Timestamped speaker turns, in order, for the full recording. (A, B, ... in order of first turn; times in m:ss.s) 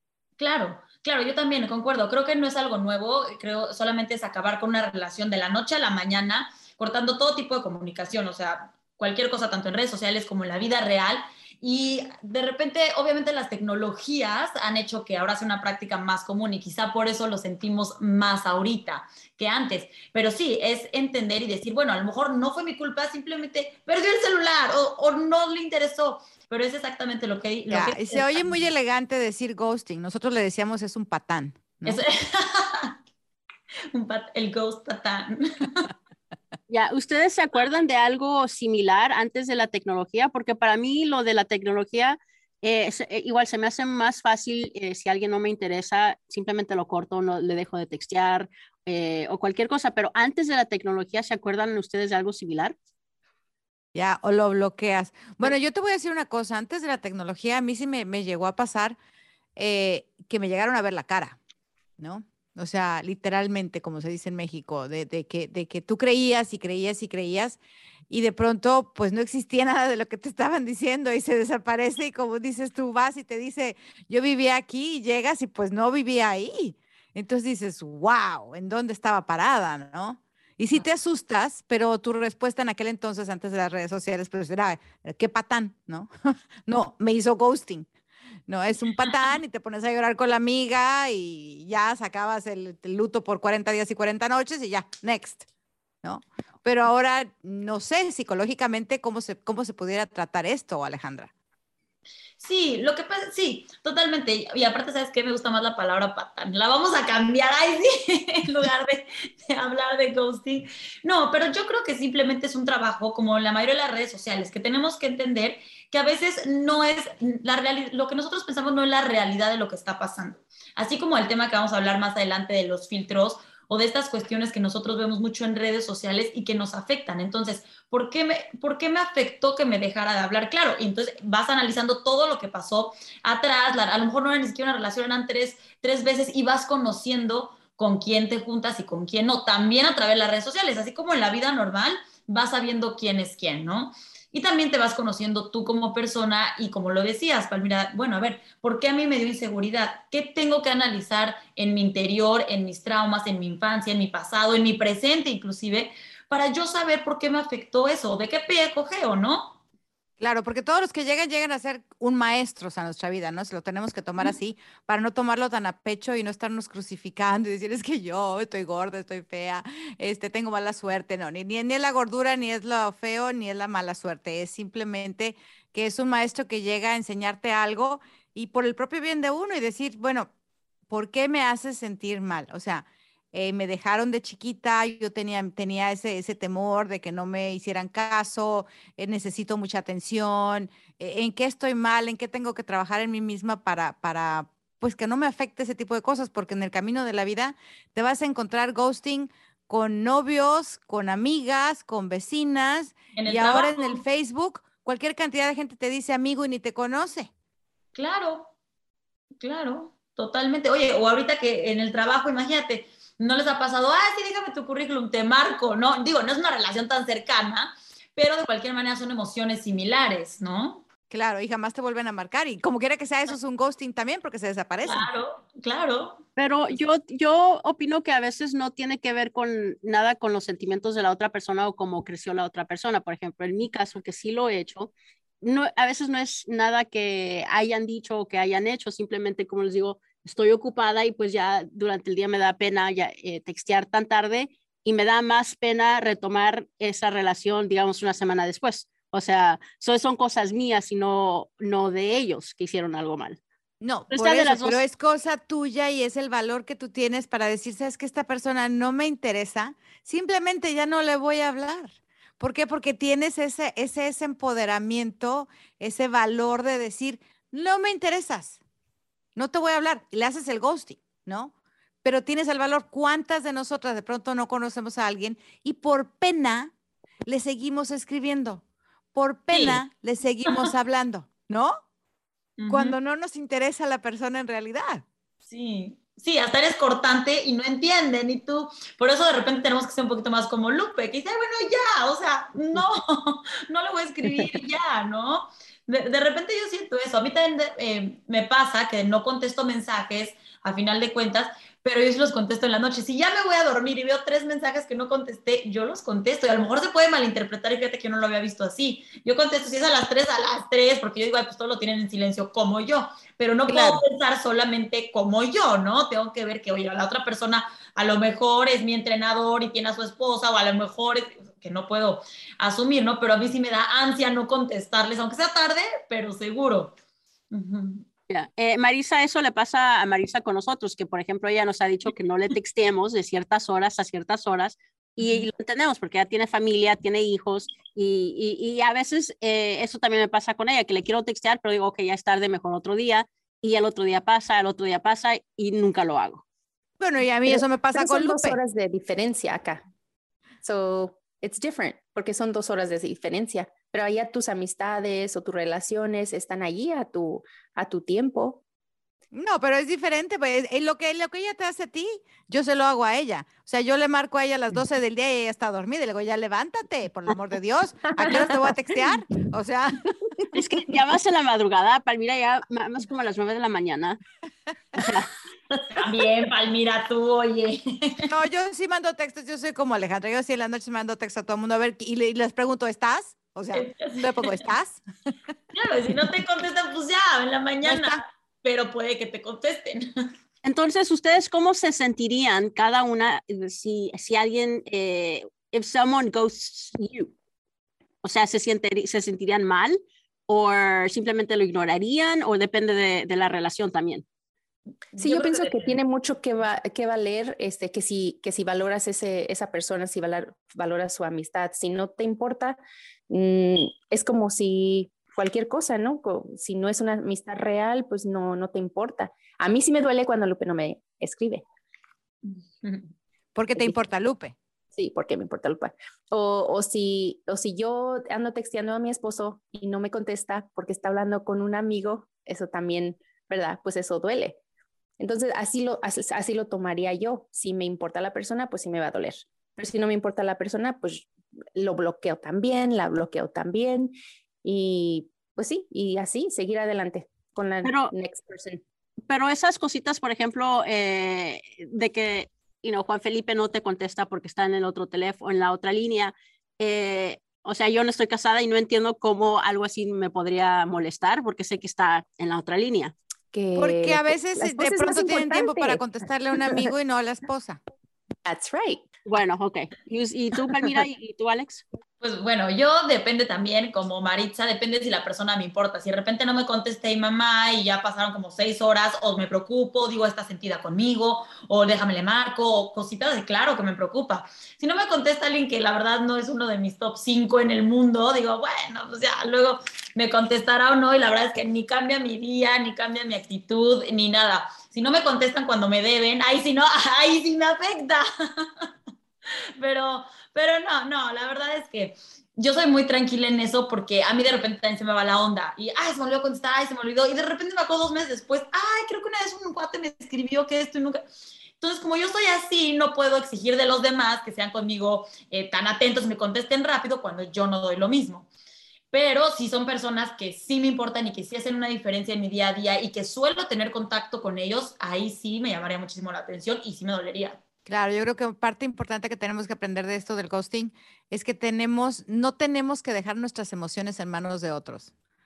0:00.4-0:28.6 A
0:27.7-0:32.0 B
0:31.8-0:32.9 A
0:33.9-0:35.9 A
0:36.7-0:52.8 C
0:53.9-0:59.0 B
0:59.6-1:01.4 B
1:02.0-1:26.1 B
1:26.7-1:27.9 B
1:28.5-1:35.4 B
1:36.0-1:41.3 B
1:42.4-2:39.6 A
2:40.2-3:00.3 B
3:00.9-3:27.3 B
3:23.2-3:24.0 A
3:27.9-3:28.5 A
3:29.4-3:40.8 A
3:41.1-3:45.1 B
3:44.8-3:46.2 A
3:46.4-4:13.4 C
4:13.8-4:28.6 B
4:14.1-4:14.8 C
4:29.4-4:31.5 B
4:32.0-4:36.7 B
4:37.2-4:38.6 B
4:39.1-4:41.8 B
4:39.5-4:39.8 A
4:40.4-4:40.7 A
4:42.6-4:43.0 A
4:42.7-4:45.0 B
4:45.4-5:27.0 A
5:13.7-5:14.0 B
5:27.5-5:28.0 A
5:28.3-5:46.4 C
5:35.2-5:35.5 A
5:47.0-5:48.6 B
5:47.4-5:49.8 D
5:50.6-5:58.6 D
5:59.3-6:10.0 B
6:10.5-6:14.2 C
6:15.0-6:15.3 C
6:16.0-6:18.3 A
6:18.3-6:25.0 B
6:23.7-6:24.5 A
6:25.7-6:30.3 A
6:27.8-6:28.2 B
6:30.6-6:37.3 C
6:38.2-6:44.2 C
6:45.1-6:45.9 A
6:45.2-7:01.6 D
7:02.4-7:03.1 A
7:03.5-7:04.6 B
7:03.7-7:04.0 D
7:04.9-7:14.6 D
7:15.2-7:28.8 D
7:27.8-7:28.1 C
7:29.3-7:43.1 C
7:43.5-7:46.0 D
7:43.7-7:47.8 B
7:48.4-7:49.0 D
7:49.2-7:51.8 C
7:52.2-8:18.8 A
8:19.8-8:31.2 A
8:31.8-8:38.5 A
8:39.1-8:47.6 A
8:47.9-8:55.1 B